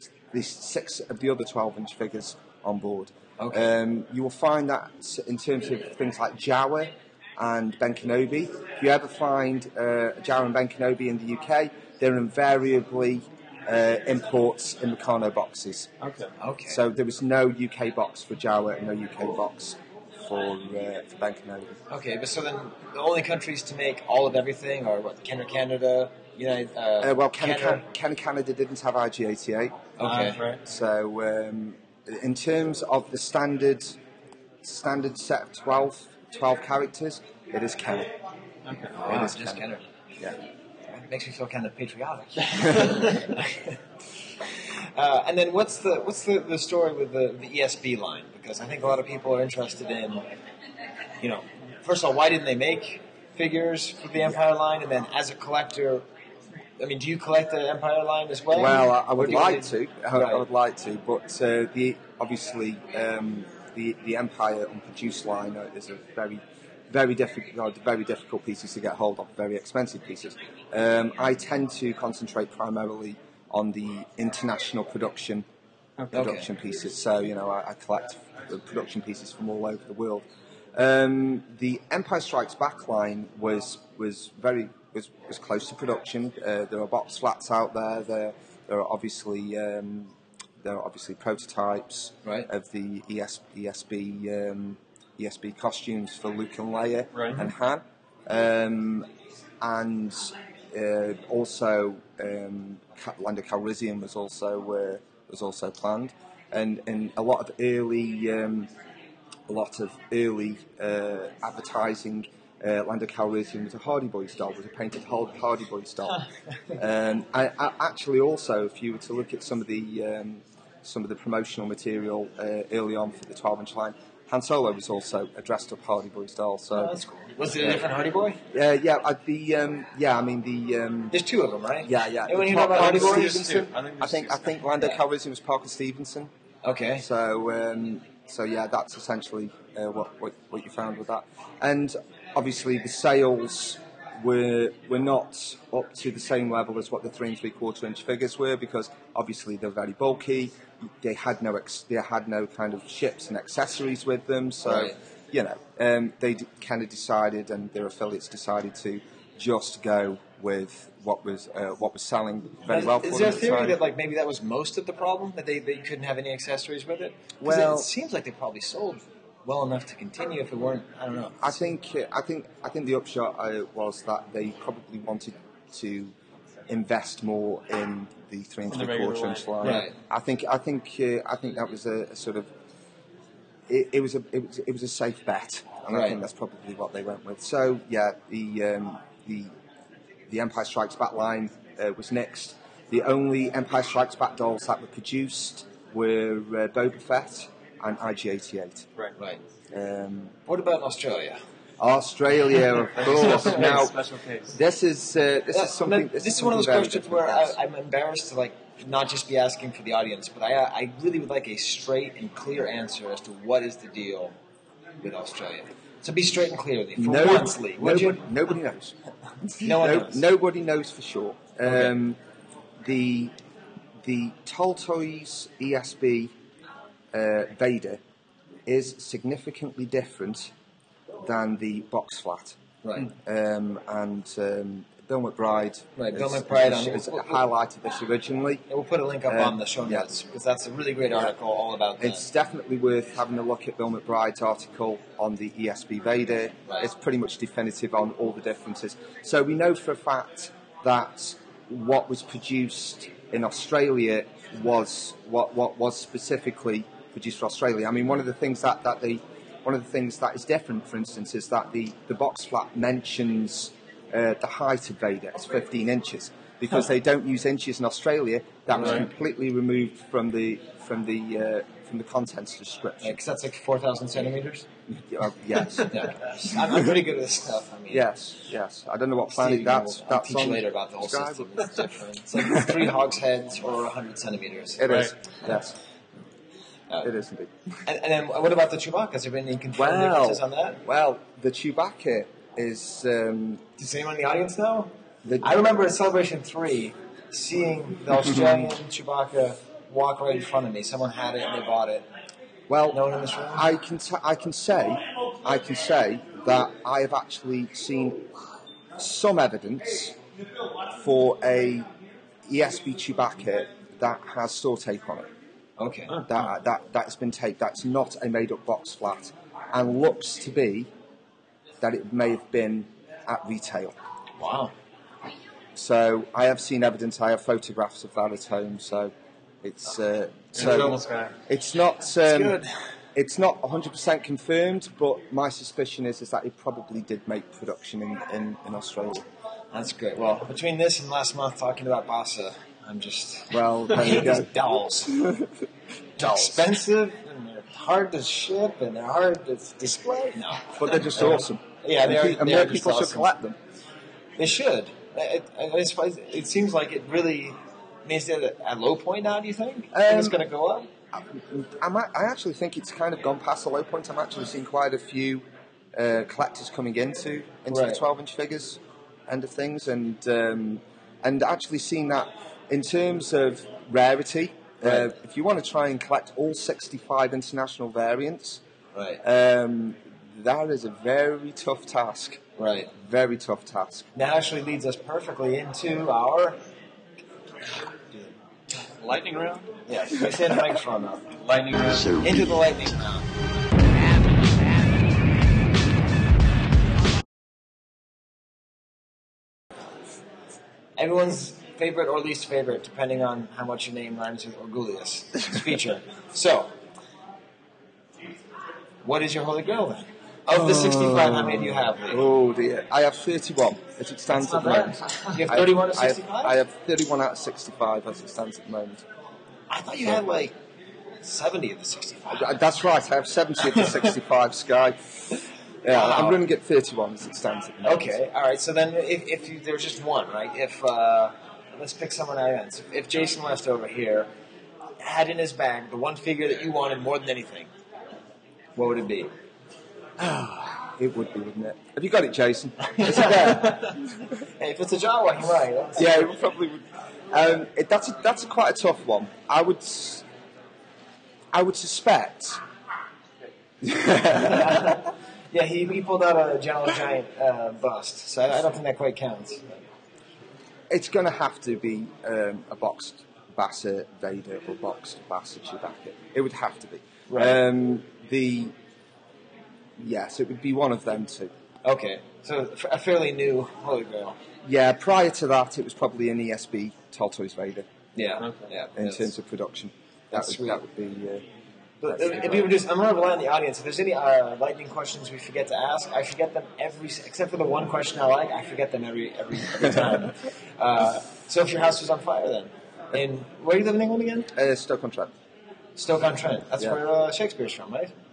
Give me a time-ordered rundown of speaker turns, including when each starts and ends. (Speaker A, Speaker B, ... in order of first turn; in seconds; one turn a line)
Speaker A: 0.3-15.9
Speaker B: 3.4-3.7
Speaker C: 16.0-16.3
Speaker B: 16.4-16.8
Speaker A: 16.7-21.8
Speaker B: 21.9-27.8
Speaker A: 27.0-29.8
Speaker B: 30.0-30.4
Speaker C: 30.0-30.6
Speaker A: 30.6-34.0
Speaker A: 34.6-38.1
Speaker C: 38.6-39.0
Speaker B: 39.0-39.8
Speaker A: 39.0-39.7
Speaker B: 40.9-43.8
Speaker C: 42.7-43.2
Speaker B: 45.0-50.2
Speaker B: 51.2-56.1
Speaker B: 56.8-60.5
Speaker A: 58.5-75.5
Speaker B: 76.1-76.5
Speaker A: 76.1-99.1
Speaker C: 97.2-97.4
Speaker A: 99.6-108.7
Speaker A: 109.5-116.2
Speaker A: 116.8-126.9
Speaker B: 126.7-128.4
Speaker A: 127.5-127.8
Speaker A: 128.5-131.2
Speaker B: 131.1-133.3
Speaker A: 131.8-136.3
Speaker C: 132.6-134.6
Speaker B: 136.6-137.1
Speaker A: 137.0-163.8
Speaker B: 154.7-154.9
Speaker B: 162.7-171.7
Speaker A: 167.4-167.9
Speaker A: 171.4-176.1
Speaker A: 176.7-182.5
Speaker C: 178.7-179.8
Speaker B: 179.6-179.9
Speaker A: 183.7-189.5
Speaker B: 185.9-186.2
Speaker A: 190.3-198.9
Speaker A: 199.7-200.3
Speaker B: 200.5-201.4
Speaker A: 201.8-204.0
Speaker C: 203.0-204.6
Speaker A: 204.5-207.6
Speaker B: 205.5-214.3
Speaker B: 215.0-218.3
Speaker A: 217.0-222.2
Speaker B: 219.6-220.3
Speaker A: 222.8-223.3
Speaker A: 224.0-226.3
Speaker A: 227.1-228.0
Speaker A: 228.7-230.5
Speaker A: 231.2-238.7
Speaker B: 232.8-233.1
Speaker B: 236.0-237.4
Speaker B: 238.7-242.2
Speaker A: 239.3-240.1
Speaker A: 242.0-273.2
Speaker C: 268.7-269.1
Speaker B: 273.0-274.7
Speaker A: 274.9-276.1
Speaker B: 275.9-278.1
Speaker A: 277.9-281.7
Speaker B: 279.3-285.5
Speaker A: 284.8-285.8
Speaker A: 287.0-287.5
Speaker B: 287.9-290.8
Speaker A: 289.7-293.6
Speaker B: 293.8-302.1
Speaker A: 295.2-295.6
Speaker A: 302.7-308.3
Speaker B: 302.9-303.7
Speaker A: 309.0-310.2
Speaker A: 310.9-311.9
Speaker A: 312.5-315.3
Speaker B: 315.8-316.2
Speaker A: 316.3-320.9
Speaker A: 321.8-324.0
Speaker B: 324.4-324.7
Speaker A: 325.8-332.6
Speaker C: 330.5-331.3
Speaker B: 332.3-332.7
Speaker A: 333.1-339.3
Speaker B: 339.7-345.2
Speaker A: 343.5-345.5
Speaker B: 346.2-353.3
Speaker A: 346.2-346.6
Speaker A: 350.7-353.6
Speaker B: 354.4-360.9
Speaker A: 359.9-360.4
Speaker A: 361.1-378.6
Speaker B: 367.7-368.0
Speaker B: 374.8-375.1
Speaker B: 378.9-379.2
Speaker A: 379.2-382.4
Speaker B: 382.6-382.9
Speaker A: 382.9-384.1
Speaker B: 384.1-386.6
Speaker C: 389.0-389.7
Speaker B: 389.9-391.2
Speaker C: 391.3-392.2
Speaker B: 392.2-393.3
Speaker B: 401.0-406.7
Speaker B: 409.0-412.2
Speaker A: 410.5-419.1
Speaker B: 414.3-416.6
Speaker B: 419.7-420.6
Speaker B: 421.2-422.6
Speaker A: 422.3-425.0
Speaker A: 425.8-428.2
Speaker B: 425.9-426.4
Speaker B: 427.8-434.3
Speaker B: 435.0-437.7
Speaker B: 438.8-439.3
Speaker A: 440.8-444.3
Speaker B: 443.0-443.8
Speaker B: 444.6-446.3
Speaker A: 446.0-450.2
Speaker A: 451.5-452.6
Speaker A: 453.8-455.0
Speaker B: 454.3-459.8
Speaker A: 460.9-468.8
Speaker B: 467.3-467.6
Speaker A: 470.0-471.5
Speaker B: 471.8-474.4
Speaker A: 474.6-477.9
Speaker B: 478.2-479.3
Speaker C: 478.4-478.7
Speaker A: 479.0-481.4
Speaker B: 480.3-480.8
Speaker B: 482.0-494.5
Speaker A: 482.0-482.7
Speaker A: 494.6-495.3
Speaker B: 496.0-498.1